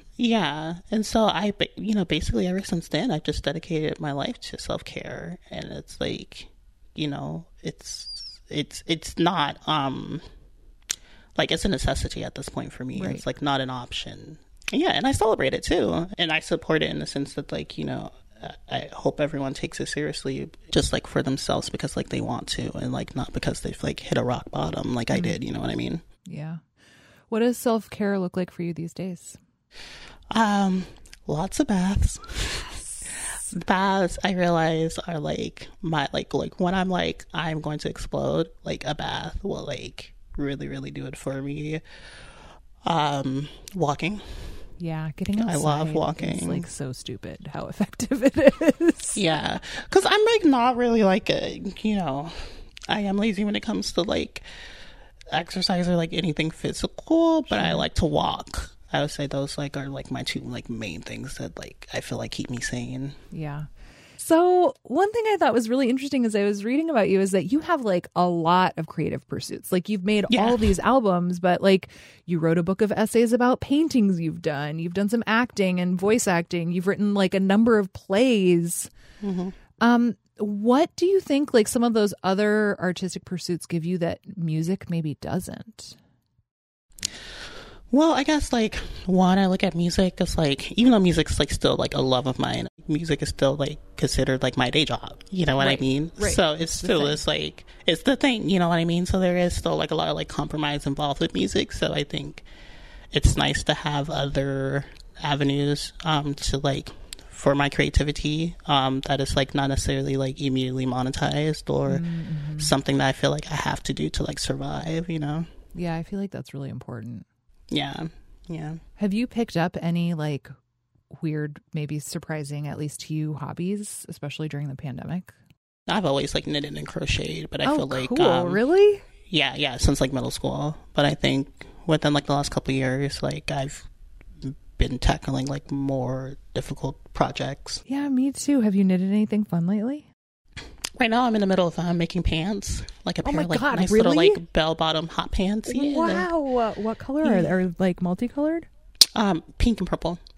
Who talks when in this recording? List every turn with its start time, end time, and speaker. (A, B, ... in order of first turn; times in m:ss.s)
0:00.2-0:10.2 A
0:11.4-0:26.0 A
0:13.0-0:13.2 B
0:26.2-0:26.6 B
0:27.3-0:29.4 B
0:30.3-0:32.7 A
0:33.0-0:33.5 B
0:33.5-0:41.8 A
0:42.8-0:44.6 A
0:44.8-0:49.2 B
0:45.4-0:46.7 A
0:49.1-0:54.4 A
0:55.3-1:03.2 A
0:57.5-0:57.8 B
1:03.3-1:18.9 B
1:10.3-1:10.7 A
1:19.2-1:19.6 A
1:19.8-1:26.0 B
1:27.9-1:42.4 A
1:35.6-1:37.2 B
1:43.1-1:52.0 A
1:51.9-1:52.7 B
1:52.6-1:55.5 A
1:55.7-1:57.2 B
1:57.7-1:58.8 A
1:59.0-2:00.5 B
2:01.2-2:05.3 B
2:05.9-2:08.6 A
2:07.6-2:09.0 B
2:09.3-2:13.9 A
2:14.4-2:17.8 A
2:17.9-2:20.1 B
2:21.0-2:26.3 A
2:23.2-2:24.4 B
2:25.7-2:28.7 B
2:27.2-2:27.5 A
2:29.1-2:30.2 A